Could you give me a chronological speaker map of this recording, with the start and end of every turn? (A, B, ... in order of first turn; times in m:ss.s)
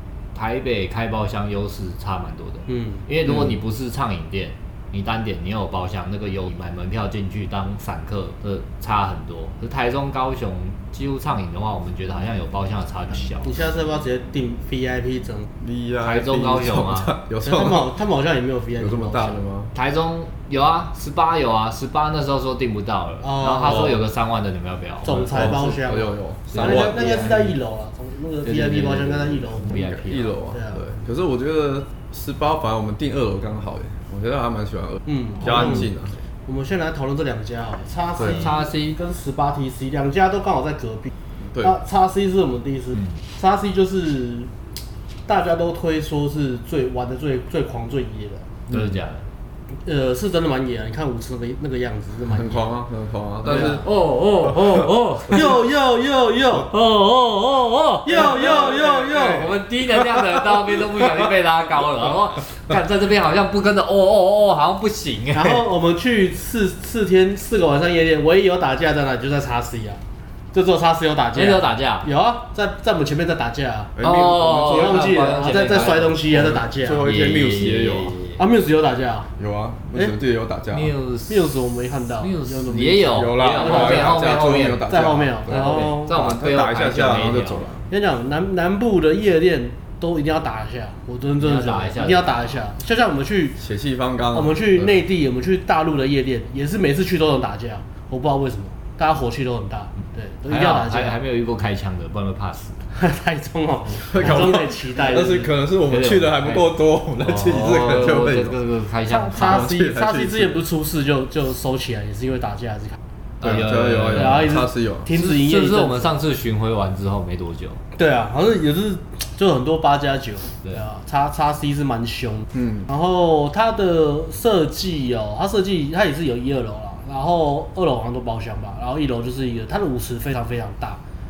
0:00.3-0:13.5 A
0:02.7-0:03.0 B
0:13.4-0:15.5 B
0:15.6-0:17.9 C
0:16.0-0:17.1 A
0:17.4-0:19.4 B
0:18.8-0:19.7 C
0:19.8-0:25.6 A
0:23.2-0:24.0 B
0:25.0-0:29.8 B
0:25.3-0:27.3 C
0:26.5-0:27.6 A
0:28.4-0:30.3 A
0:29.7-0:36.2 C
0:30.5-0:30.9 B
0:35.1-0:35.9 B
0:36.5-0:44.5 B
0:38.2-0:38.4 C
0:38.2-0:39.0 A
0:45.3-0:48.5 B
0:48.7-0:49.2 A
0:49.8-0:52.8 B
0:52.3-0:53.8 C
0:53.4-0:55.6 A
0:55.3-0:56.7 B
0:56.6-1:05.6 A
0:58.1-0:59.6 B
1:05.3-1:10.0 B
1:10.5-1:14.0 B
1:11.3-1:12.1 A
1:14.0-1:15.0 C
1:14.0-1:18.4 A
1:14.5-1:17.1 B
1:16.3-1:18.2 C
1:18.4-1:19.3 B
1:19.4-1:20.9 C
1:20.7-1:21.5 A
1:21.3-1:26.1 B
1:22.2-1:24.8 A
1:23.1-1:27.8 C
1:25.5-1:27.6 A
1:27.9-1:33.6 B
1:31.4-1:32.5 A
1:33.6-1:34.9 C
1:34.3-1:41.2 B
1:40.5-1:42.8 A
1:42.9-1:45.5 B
1:44.1-1:48.6 C
1:45.9-1:49.7 A
1:49.1-1:53.0 B
1:49.3-1:50.6 C
1:53.4-1:55.1 C
1:53.4-1:57.8 A
1:54.1-1:56.1 B
1:58.0-2:11.0 B
2:02.5-2:02.9 C